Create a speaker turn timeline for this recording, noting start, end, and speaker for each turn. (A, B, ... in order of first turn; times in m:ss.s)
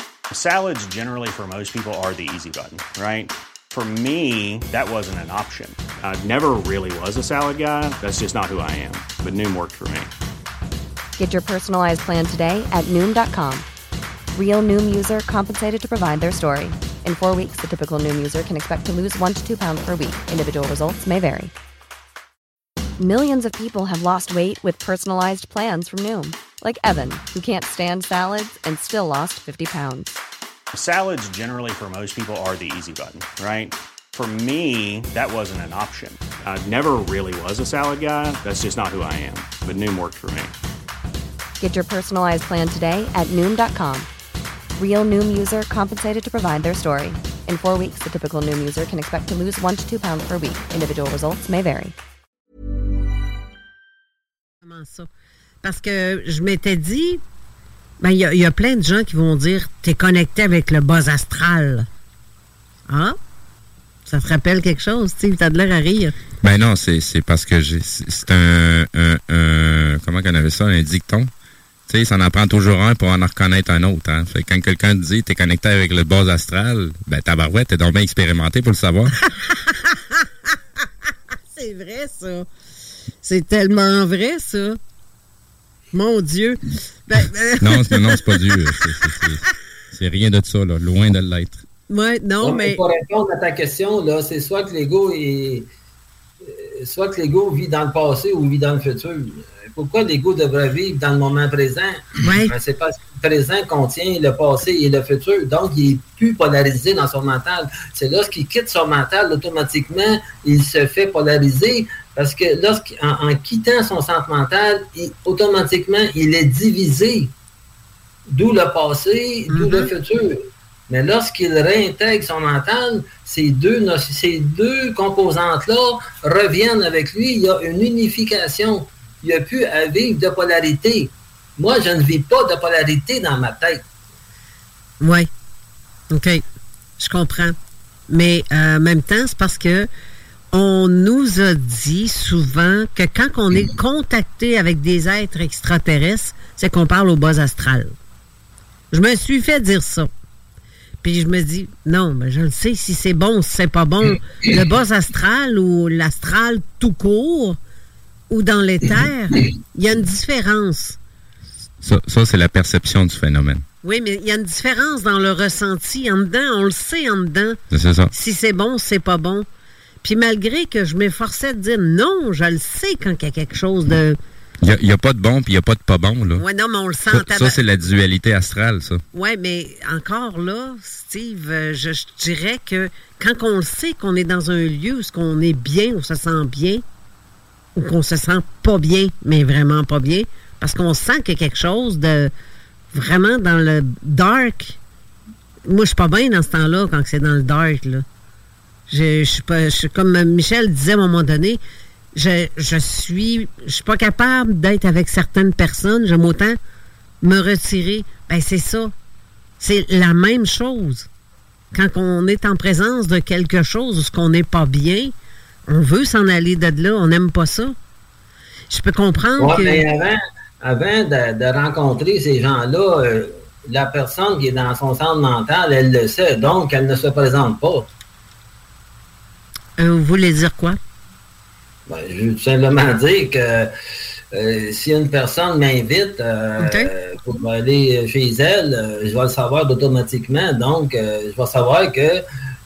0:00.3-0:10.1 A
0:11.2-0:13.6 B
0:14.3-0:21.5 B
0:23.0-0:30.2 B
0:30.7-0:40.5 A
0:41.6-0:44.1 B
0:44.8-0:51.9 B
0:54.6-0:55.1 C
0:55.6-0:57.2 C
0:58.0-1:01.9 C
1:02.9-1:03.2 C
1:04.0-1:06.1 C
1:06.4-1:11.3 D
1:11.9-1:19.1 D
1:19.3-1:19.9 C
1:21.5-1:22.5 C
1:23.2-1:24.8 C
1:25.9-1:29.2 C
1:27.6-1:31.6 D
1:31.9-1:32.8 C
1:32.4-1:35.7 E
1:36.4-1:57.3 E
1:42.2-1:42.5 C
1:58.3-2:13.8 E
1:59.5-1:59.9 C
2:15.0-2:15.3 C
2:16.1-2:16.4 C
2:17.0-2:17.6 C
2:18.1-2:19.9 C
2:20.5-2:27.9 C
2:28.9-2:30.1 C
2:31.0-2:37.6 C
2:38.3-2:41.0 C
2:41.8-2:43.6 D
2:43.8-2:47.6 C
2:47.7-2:48.1 D
2:48.1-2:49.5 C
2:50.0-2:54.2 C
2:54.6-2:56.4 D
2:56.4-2:57.6 C
2:57.1-2:59.0 D
2:59.1-3:06.8 C
3:07.8-3:12.3 C
3:12.9-3:14.8 C
3:15.6-3:18.0 C
3:18.9-3:21.6 C
3:22.1-3:26.6 C
3:27.2-3:28.9 C
3:29.6-3:31.1 C
3:31.7-3:35.1 C
3:35.7-3:37.7 C
3:38.7-3:39.8 C
3:39.4-3:47.9 E
3:49.8-3:50.8 C
3:51.9-3:53.7 E
3:54.3-4:02.2 E
3:56.6-3:56.9 C